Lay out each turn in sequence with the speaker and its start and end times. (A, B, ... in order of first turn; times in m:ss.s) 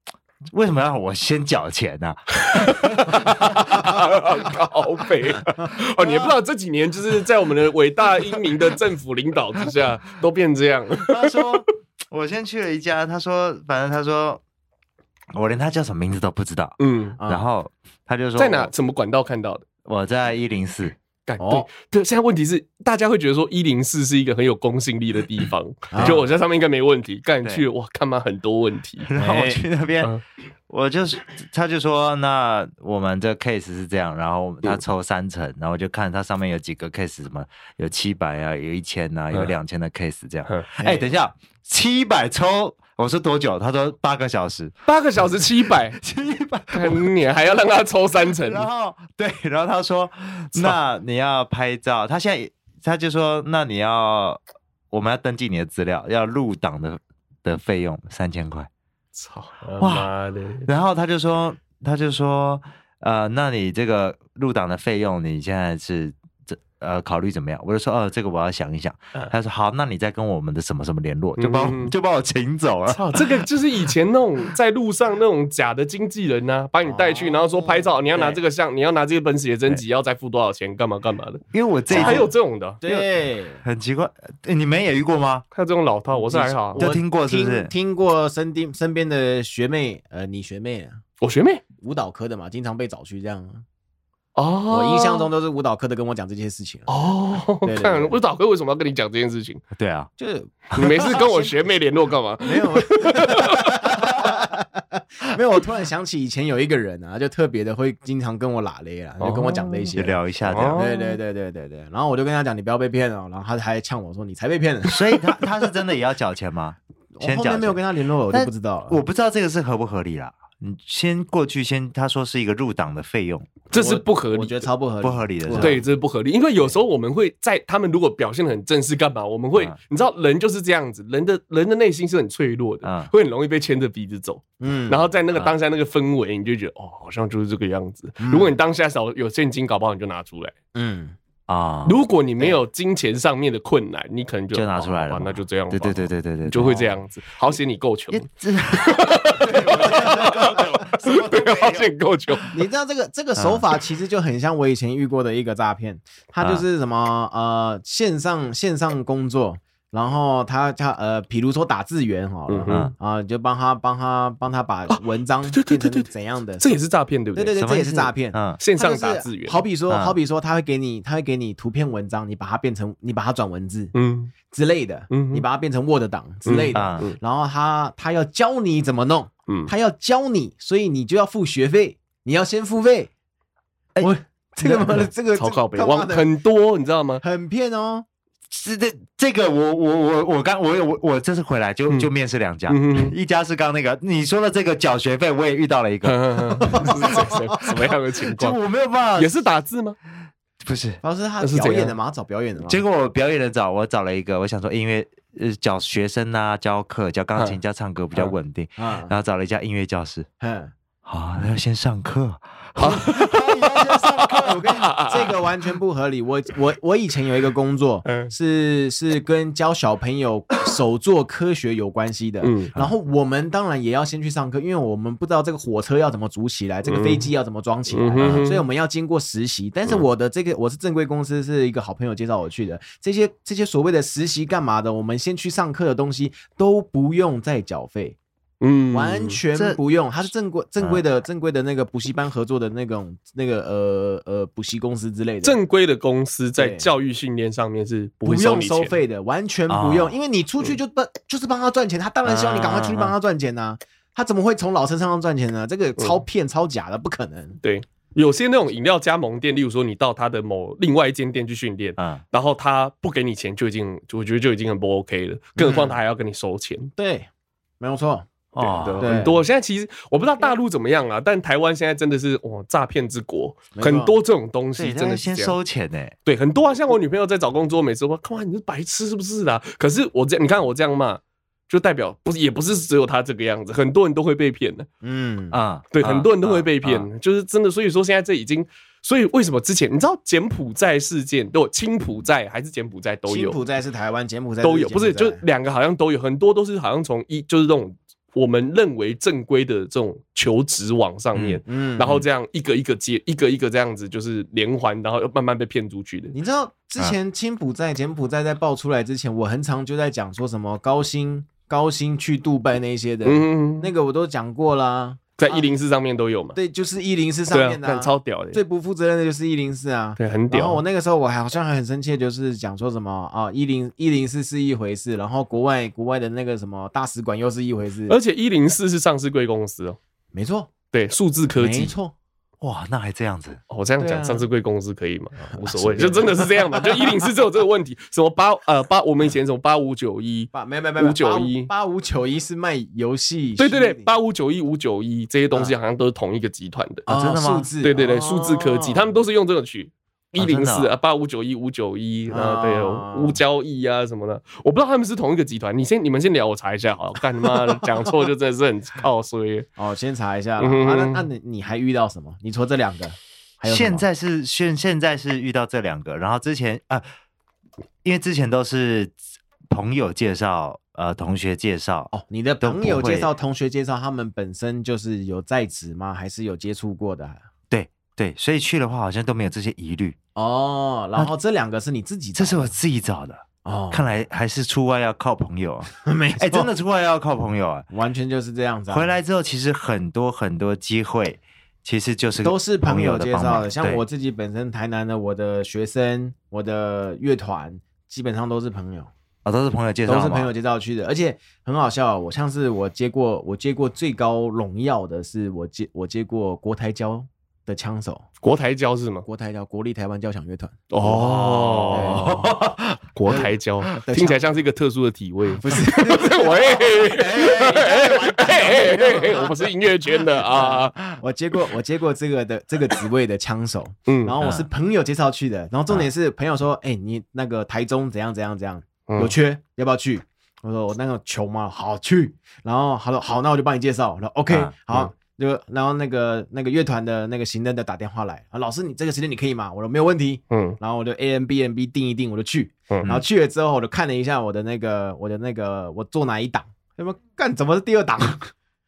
0:00.5-0:03.9 A
0:02.4-0:11.6 B
0:11.0-0:14.4 A
0:15.3-0:18.7 A
0:16.8-0:17.2 B
0:17.2-0:17.4 C
0:18.4-0:19.6 B
0:19.8-0:21.0 A
0:21.2-0:29.1 B
0:21.4-0:21.7 C
0:25.9-0:26.2 C
0:29.1-0:30.1 A
0:29.2-0:29.6 C
0:30.7-0:44.7 A
0:40.5-0:40.8 B
0:44.9-0:46.0 B
0:46.0-0:47.1 A
0:46.7-0:48.6 B
0:48.4-0:54.4 A
0:54.9-0:58.7 A
0:59.1-1:00.7 B
0:59.8-1:00.1 A
1:00.6-1:13.3 A
1:11.4-1:11.9 B
1:12.9-1:22.8 B
1:16.8-1:18.4 C
1:21.5-1:22.3 A
1:21.9-1:22.3 C
1:22.8-1:23.6 C
1:23.6-1:25.4 A
1:25.5-1:26.8 B
1:26.3-1:31.0 C
1:26.7-1:27.7 A
1:31.2-1:31.6 B
1:31.8-1:33.6 C
1:34.4-1:35.3 B
1:34.7-1:36.9 C
1:36.9-1:39.6 B
1:37.6-1:38.2 C
1:39.8-1:40.1 A
1:40.2-1:41.7 C
1:40.7-1:43.9 B
1:42.4-1:50.2 C
1:49.2-1:50.8 A
1:50.4-1:51.2 B
1:50.7-1:55.4 C
1:54.8-1:57.8 A
1:57.1-1:59.0 C
1:58.3-2:03.6 A
2:03.7-2:04.7 B
2:03.7-2:05.8 C
2:05.0-2:05.8 A
2:05.6-2:20.6 B
2:12.8-2:13.1 A
2:14.6-2:15.0 C
2:18.2-2:18.5 C
2:20.7-2:21.2 C
2:21.5-2:22.0 A
2:21.8-2:32.5 B
2:24.5-2:26.9 A
2:28.1-2:31.9 A
2:29.8-2:30.5 C
2:32.5-2:46.7 C
2:33.4-2:33.6 A
2:42.5-2:42.9 B
2:44.9-2:47.6 B
2:47.4-2:53.9 C
2:47.6-2:48.6 A
2:48.6-2:49.6 B
2:49.9-2:50.2 A
2:53.9-2:54.3 B
2:54.5-3:03.1 C
2:55.1-2:55.4 B
2:56.4-2:57.2 B
2:56.7-2:57.0 A
3:04.0-3:06.3 C
3:04.6-3:07.2 B
3:07.2-3:08.1 C
3:08.5-3:19.4 A
3:12.7-3:13.1 B
3:16.0-3:18.6 B
3:16.7-3:17.4 C
3:19.2-3:20.0 B
3:20.6-3:21.0 A
3:21.0-3:22.8 C
3:21.4-3:21.9 B
3:22.7-3:30.3 A
3:28.8-3:29.1 C
3:30.4-3:30.7 C
3:31.1-3:34.7 A
3:32.8-3:35.4 B
3:34.2-3:58.2 C
3:38.0-3:38.3 B
3:42.4-3:42.7 B
3:46.9-3:47.3 B
3:47.9-3:48.6 B
3:58.6-3:59.4 B
3:58.9-4:05.6 C
3:59.5-3:59.8 A
4:05.4-4:09.0 B
4:06.6-4:06.9 C
4:08.2-4:17.6 C
4:09.7-4:10.2 A
4:12.2-4:13.1 A
4:17.6-4:26.9 B
4:25.6-4:26.0 C
4:27.0-4:27.3 C
4:27.8-4:28.3 C
4:28.6-4:29.1 A
4:28.6-4:35.6 B
4:29.0-4:29.4 C
4:33.7-4:34.2 C
4:34.8-4:36.1 A
4:36.2-4:44.9 B
4:45.0-4:45.6 C
4:45.5-4:47.1 A
4:45.9-4:53.6 B
4:53.3-4:55.4 C
4:54.6-5:06.4 B
5:01.4-5:01.6 A
5:01.6-5:02.2 C
5:06.3-5:15.7 C
5:13.2-5:13.9 B
5:15.4-5:16.6 B
5:16.6-5:28.2 C
5:17.5-5:18.6 B
5:20.2-5:20.8 B
5:28.1-5:30.0 B
5:30.3-5:30.7 C
5:30.9-5:31.9 B
5:31.6-5:32.1 C
5:32.6-5:33.6 A
5:33.7-5:41.7 B
5:34.0-5:34.5 C
5:35.6-5:37.2 C
5:40.5-5:44.1 C
5:43.6-5:47.1 B
5:47.1-5:49.1 C
5:47.1-5:47.7 A
5:47.8-5:59.7 B
5:50.4-5:50.9 A
5:52.3-5:53.4 C
5:59.8-6:04.1 C
6:00.6-6:01.3 B
6:03.6-6:07.0 A
6:08.0-6:09.1 A
6:09.7-6:12.1 A
6:12.1-6:17.4 C
6:12.6-6:13.3 A
6:17.7-6:20.2 A
6:20.4-6:22.7 C
6:22.4-6:27.9 A
6:23.6-6:24.0 C
6:26.0-6:26.7 C
6:27.9-6:29.2 C
6:28.9-6:34.0 A
6:32.4-6:39.1 C
6:39.4-6:40.5 A
6:40.1-6:48.2 C
6:48.4-6:49.3 B
6:49.3-6:50.9 C
6:50.9-6:52.5 B
6:51.0-6:53.4 A
6:51.9-6:52.5 C
6:53.2-7:01.0 B
6:54.0-6:54.5 C
6:55.6-6:59.7 C
6:57.2-6:57.9 A
6:58.8-6:59.4 A
7:00.4-7:28.5 C
7:04.1-7:04.4 B
7:04.4-7:04.6 A
7:09.1-7:09.4 B
7:14.5-7:14.8 A
7:20.5-7:20.8 B